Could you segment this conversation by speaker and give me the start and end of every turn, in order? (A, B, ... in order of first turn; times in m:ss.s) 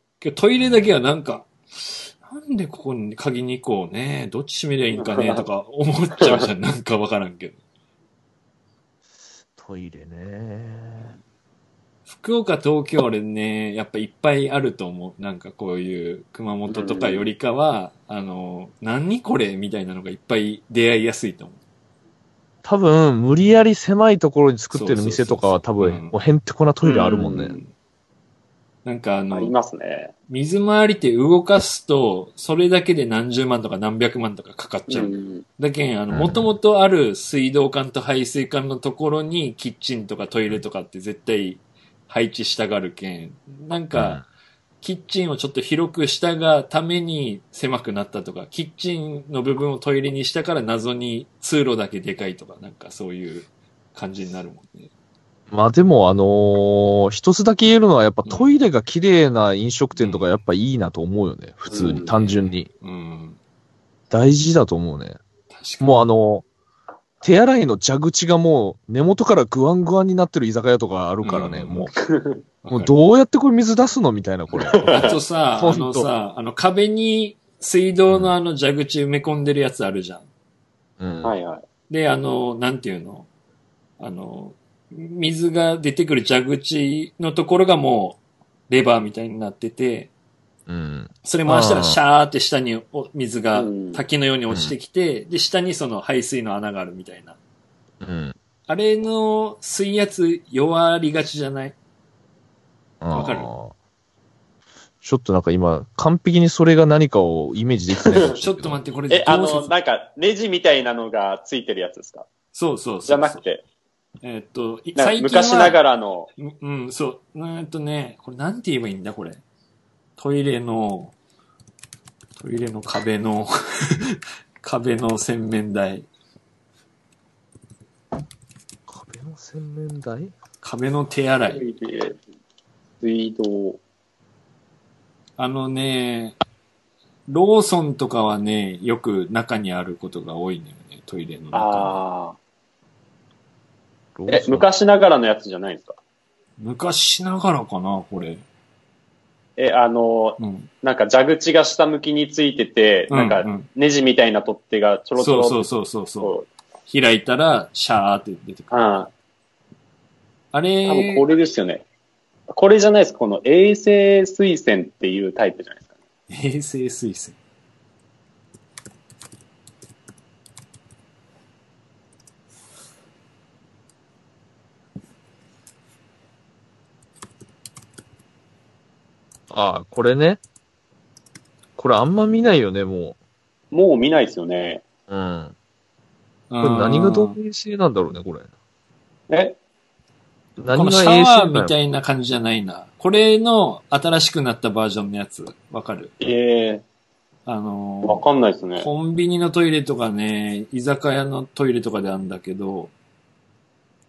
0:00.2-0:07.6 A
0:00.6-0:00.9 B
0:05.0-0:05.4 C
0:06.2-0:06.5 C
0:09.6-0:11.2 B
0:12.1-0:21.6 A
0:16.7-0:17.3 C
0:22.6-0:27.6 B
0:24.7-0:26.1 A
0:26.9-0:27.7 A
0:28.8-0:29.5 A
0:29.3-0:30.1 C
0:30.3-0:44.2 A
0:34.9-0:35.4 C
0:36.1-0:36.5 B
0:43.9-0:44.2 B
0:44.8-0:54.9 A
0:55.5-1:02.7 B
1:00.0-1:00.3 A
1:01.7-1:02.1 C
1:01.9-1:03.4 A
1:04.1-1:05.2 B
1:05.5-1:06.1 A
1:05.8-1:06.4 B
1:07.2-1:11.9 B
1:11.2-1:11.9 A
1:12.1-1:12.4 C
1:12.6-1:12.9 A
1:12.7-1:16.1 B
1:14.6-1:15.2 C
1:14.9-1:20.2 A
1:18.1-1:18.3 B
1:21.0-1:21.3 B
1:21.2-1:21.6 C
1:21.9-1:23.3 A
1:24.0-1:30.1 A
1:30.7-1:32.0 B
1:31.2-1:37.4 A
1:33.5-1:34.0 C
1:38.0-1:38.3 B
1:38.7-1:41.8 A
1:43.0-1:43.7 B
1:43.1-1:43.5 A
1:45.0-1:48.8 B
1:48.0-1:48.3 C
1:48.3-1:49.7 A
1:49.1-1:52.3 C
1:52.5-1:53.4 A
1:53.0-1:53.6 C
1:54.2-1:55.8 A
1:55.0-1:56.3 C
1:56.4-1:59.4 A
2:00.2-2:01.1 A
2:02.4-2:06.1 A
2:08.9-2:10.3 B
2:10.6-2:11.6 A
2:11.5-2:12.2 C
2:13.0-2:13.8 C
2:15.4-2:16.4 A
2:17.3-2:22.0 A
2:21.5-2:22.4 C
2:24.2-2:24.6 B
2:24.3-2:26.0 C
2:26.6-2:28.4 A
2:29.6-2:35.7 C
2:30.4-2:30.7 A
2:33.1-2:33.7 A
2:35.2-2:36.4 A
2:36.2-2:36.5 C
2:36.9-2:38.8 A
2:38.7-2:39.1 C
2:40.5-2:41.2 A
2:40.8-2:41.8 C
2:42.5-2:45.8 C
2:46.3-2:47.4 A
2:59.5-3:00.4 B
3:01.8-3:03.2 B
3:03.7-3:04.8 C
3:05.1-3:05.5 B
3:06.5-3:07.4 A
3:06.6-3:08.5 B
3:09.3-3:09.6 C
3:10.6-3:11.7 B
3:10.7-3:16.1 A
3:16.2-3:16.8 C
3:17.4-3:18.2 A
3:18.0-3:18.9 C
3:18.8-3:22.9 A